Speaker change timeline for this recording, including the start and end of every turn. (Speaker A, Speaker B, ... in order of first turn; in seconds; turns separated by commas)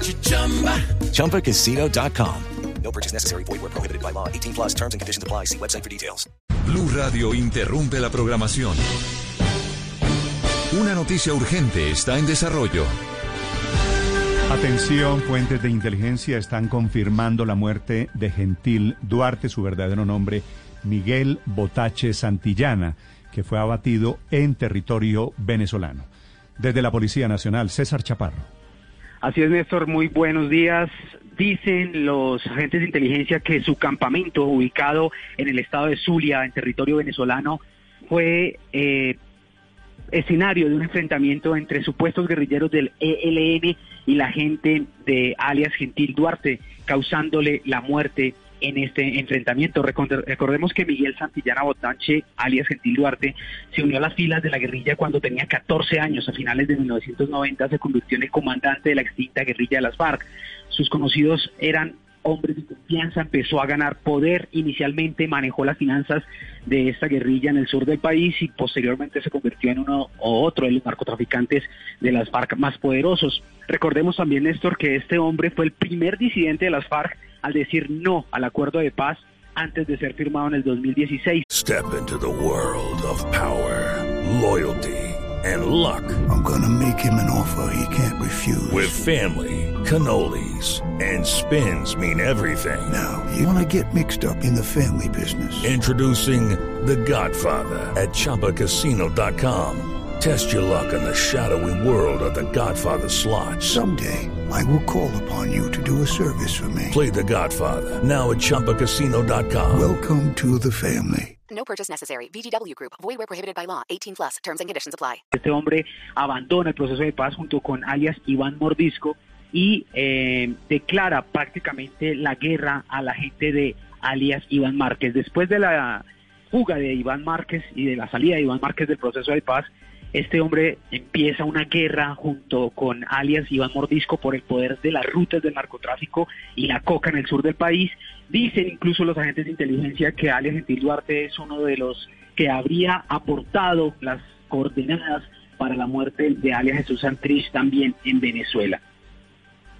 Speaker A: 0.9-6.2, Speaker B: 6.7-8.8, Speaker B: 10.7-12.9, Speaker C: 14.5-28.5, Speaker D: 29.2-39.1, Speaker D: 40.1-81.4, Speaker E: 81.5-86.2, Speaker F: 86.3-89.0, Speaker E: 88.7-93.0, Speaker F: 92.9-95.7, Speaker E: 95.6-103.8, Speaker F: 103.6-107.0, Speaker E: 106.9-109.9, Speaker F: 109.7-111.3, Speaker G: 111.5-115.2, Speaker D: 115.3-148.8